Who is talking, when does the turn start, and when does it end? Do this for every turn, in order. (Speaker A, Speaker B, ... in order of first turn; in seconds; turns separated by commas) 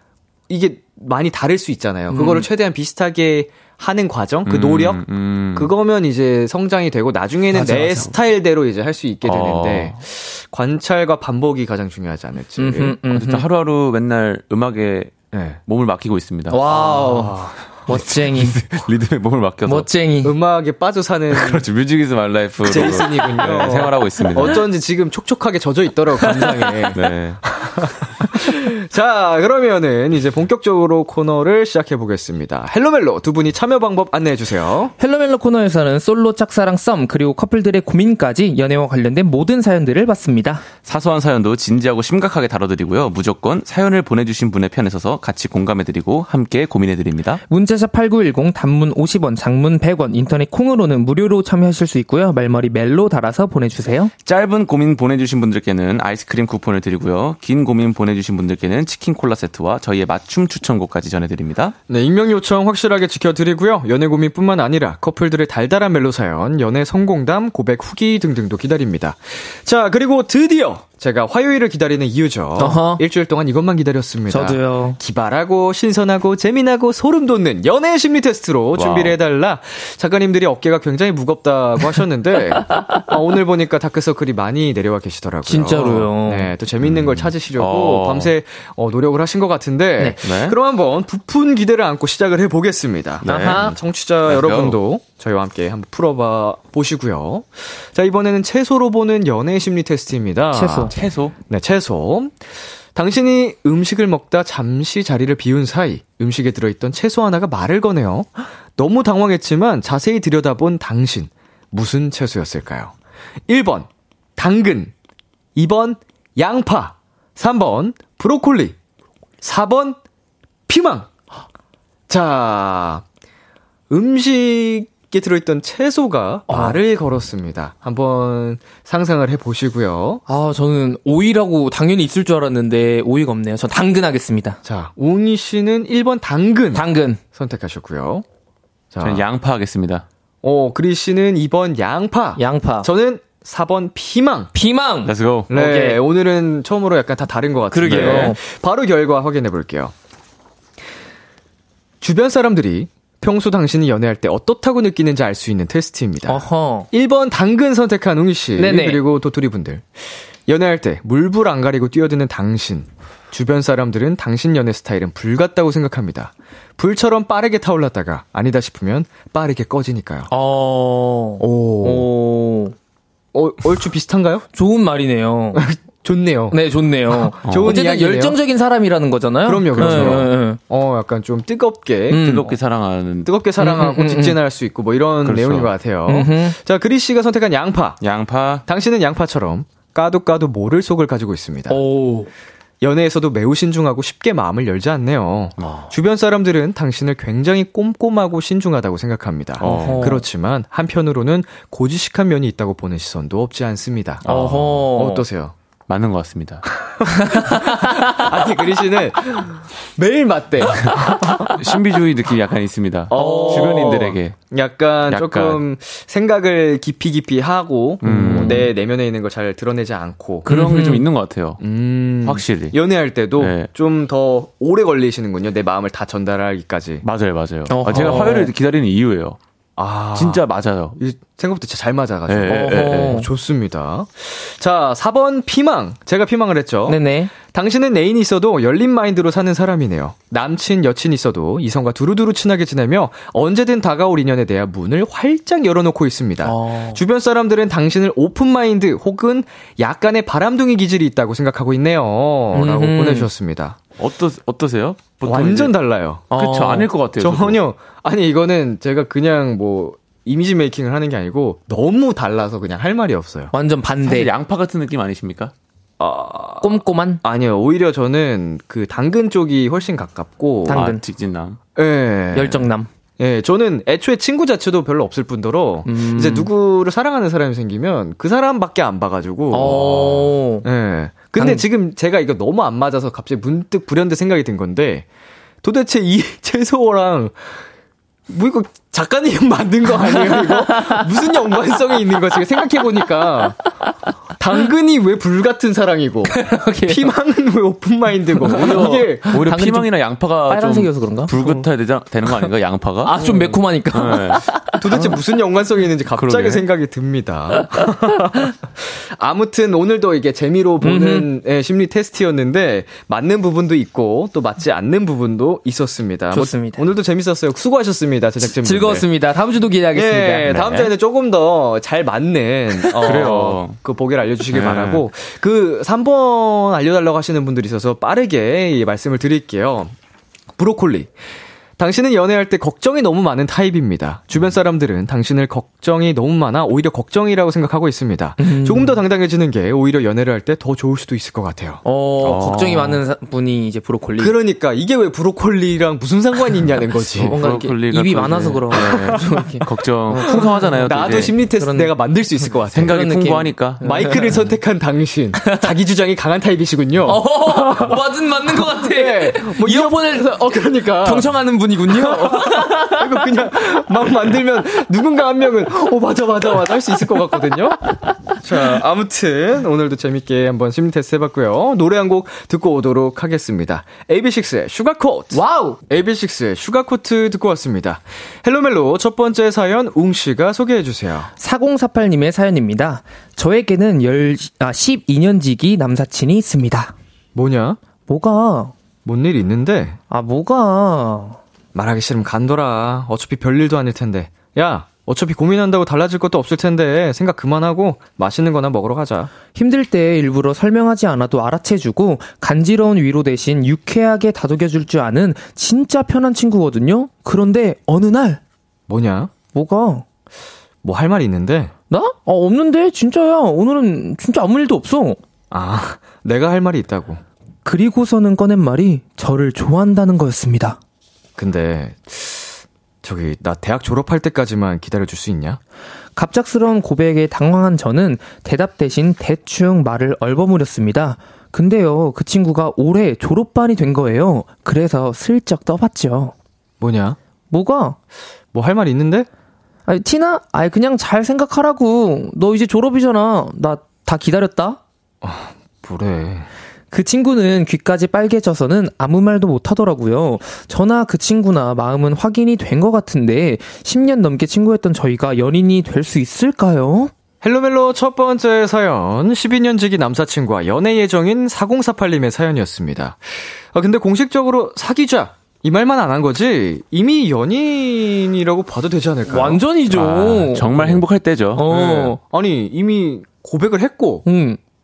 Speaker A: 0.5-13.0, Speaker B: 2.1-2.5, Speaker C: 4.5-5.7, Speaker B: 7.5-8.1, Speaker C: 9.2-9.9, Speaker B: 12.6-13.4, Speaker C: 13.1-16.6, Speaker A: 15.3-15.6, Speaker B: 16.5-17.4, Speaker A: 16.6-17.6, Speaker B: 17.9-18.6, Speaker C: 17.9-19.9, Speaker B: 19.6-20.3, Speaker A: 20.2-21.6, Speaker C: 21.3-24.6, Speaker A: 22.6-34.9, Speaker B: 26.3-26.9, Speaker C: 26.9-27.4, Speaker B: 35.0-40.6, Speaker C: 40.8-47.4, Speaker B: 47.5-54.1, Speaker C: 54.2-61.7, Speaker A: 61.9-100.9, Speaker B: 72.6-73.0, Speaker B: 74.3-75.0, Speaker C: 78.7-79.2, Speaker B: 85.5-86.5, Speaker C: 86.8-88.3, Speaker C: 90.2-90.5, Speaker C: 93.2-93.7, Speaker B: 93.2-93.7, Speaker C: 94.3-94.8, Speaker B: 100.5-100.9, Speaker C: 100.9-101.3, Speaker A: 101.5-112.9, Speaker A: 113.5-114.9, Speaker A: 115.5-118.8, Speaker A: 119.4-120.0, Speaker A: 120.7-121.1, Speaker A: 122.1-123.0, Speaker A: 123.9-130.2, Speaker B: 126.5-126.8, Speaker B: 130.3-134.6, Speaker A: 134.6-138.2, Speaker B: 136.7-137.2, Speaker A: 138.9-139.2, Speaker C: 139.0-140.0, Speaker A: 140.4-144.5, Speaker B: 142.4-142.9, Speaker B: 144.5-146.0, Speaker C: 145.0-145.5, Speaker A: 145.5-149.9, Speaker B: 147.7-148.4, Speaker C: 147.9-148.3, Speaker A: 152.0-170.3, Speaker B: 156.3-156.9, Speaker B: 158.6-159.0, Speaker B: 170.3-172.7, Speaker A: 171.4-172.1, Speaker A: 173.3-174.4, Speaker B: 174.5-175.6, Speaker A: 175.5-176.6, Speaker B: 176.5-180.6, Speaker A: 177.1-178.4, Speaker C: 177.4-177.7, Speaker A: 179.4-182.6, Speaker C: 179.8-180.2, Speaker B: 182.1-182.4, Speaker C: 182.1-183.3, Speaker A: 183.2-188.0, Speaker B: 183.6-184.4, Speaker C: 185.2-185.7, Speaker B: 186.1-186.6, Speaker C: 188.0-188.6, Speaker A: 188.7-191.8, Speaker B: 191.7-192.3, Speaker A: 192.8-204.3, Speaker C: 195.6-195.9, Speaker C: 199.6-200.2, Speaker B: 199.6-200.2, Speaker C: 204.2-204.9, Speaker B: 204.3-205.2, Speaker A: 204.9-205.5, Speaker C: 205.9-206.7, Speaker A: 206.8-211.5, Speaker B: 207.1-208.2, Speaker C: 210.8-214.3, Speaker A: 213.1-220.5, Speaker B: 213.1-213.9, Speaker C: 215.1-215.6, Speaker C: 218.0-218.7, Speaker B: 218.0-218.7, Speaker C: 220.4-221.6, Speaker B: 220.5-221.0, Speaker A: 221.6-227.0, Speaker C: 222.2-222.8, Speaker C: 223.4-223.7, Speaker C: 227.0-229.4, Speaker B: 227.7-228.5, Speaker A: 229.8-230.4, Speaker C: 230.1-231.0, Speaker A: 231.0-253.8, Speaker C: 232.3-233.2, Speaker B: 232.5-233.3, Speaker B: 236.9-237.3, Speaker B: 246.4-247.0, Speaker B: 252.5-253.3, Speaker C: 254.0-255.7, Speaker A: 255.2-256.3, Speaker B: 256.3-256.9, Speaker C: 256.3-257.6, Speaker A: 257.2-263.5, Speaker B: 263.5-264.3, Speaker C: 264.0-265.5, Speaker A: 266.0-270.8, Speaker B: 266.6-267.2, Speaker B: 270.6-271.0, Speaker C: 270.7-271.6, Speaker A: 271.8-285.1, Speaker B: 272.3-272.9, Speaker B: 275.8-276.5, Speaker B: 279.5-280.7, Speaker B: 281.4-281.6, Speaker A: 285.6-287.6, Speaker A: 288.3-293.6, Speaker B: 290.1-291.1, Speaker A: 294.4-299.3, Speaker B: 296.3-297.1, Speaker C: 298.4-303.4, Speaker B: 298.5-299.9, Speaker B: 300.5-301.6, Speaker B: 303.0-305.1, Speaker C: 303.9-304.4, Speaker A: 304.8-319.1, Speaker C: 306.1-306.6, Speaker B: 307.6-307.9, Speaker B: 310.8-311.3, Speaker B: 316.3-316.8, Speaker B: 318.4-320.5, Speaker A: 319.9-329.9, Speaker C: 320.5-320.9, Speaker C: 323.0-323.8, Speaker C: 324.5-325.0, Speaker A: 330.6-331.1, Speaker A: 331.8-341.8, Speaker B: 338.4-339.0, Speaker B: 341.8-344.4, Speaker C: 342.2-343.0, Speaker A: 344.2-347.4, Speaker C: 347.2-351.4, Speaker B: 347.3-350.9, Speaker A: 350.2-353.0, Speaker B: 351.6-351.9, Speaker C: 352.7-353.8, Speaker B: 352.9-354.2, Speaker A: 353.8-358.0, Speaker B: 357.1-360.4, Speaker A: 358.5-381.3, Speaker B: 361.0-363.2, Speaker B: 375.3-375.8, Speaker B: 381.4-386.9, Speaker A: 387.3-387.8, Speaker B: 388.1-388.7, Speaker A: 389.0-390.0, Speaker B: 390.1-391.4, Speaker A: 391.7-399.3, Speaker B: 399.5-408.4, Speaker A: 408.9-409.3, Speaker B: 409.5-410.0, Speaker A: 410.8-411.7, Speaker B: 411.9-415.2, Speaker A: 415.5-417.2, Speaker B: 417.6-420.8, Speaker A: 421.4-425.6, Speaker B: 426.1-436.3, Speaker A: 436.8-437.2, Speaker B: 437.5-438.0, Speaker A: 438.5-439.3, Speaker B: 439.9-444.8, Speaker A: 445.2-446.5, Speaker B: 446.9-457.1, Speaker A: 457.4-469.6, Speaker B: 469.3-471.0, Speaker C: 469.9-471.7, Speaker B: 471.6-472.2, Speaker A: 471.6-474.2, Speaker B: 474.2-474.6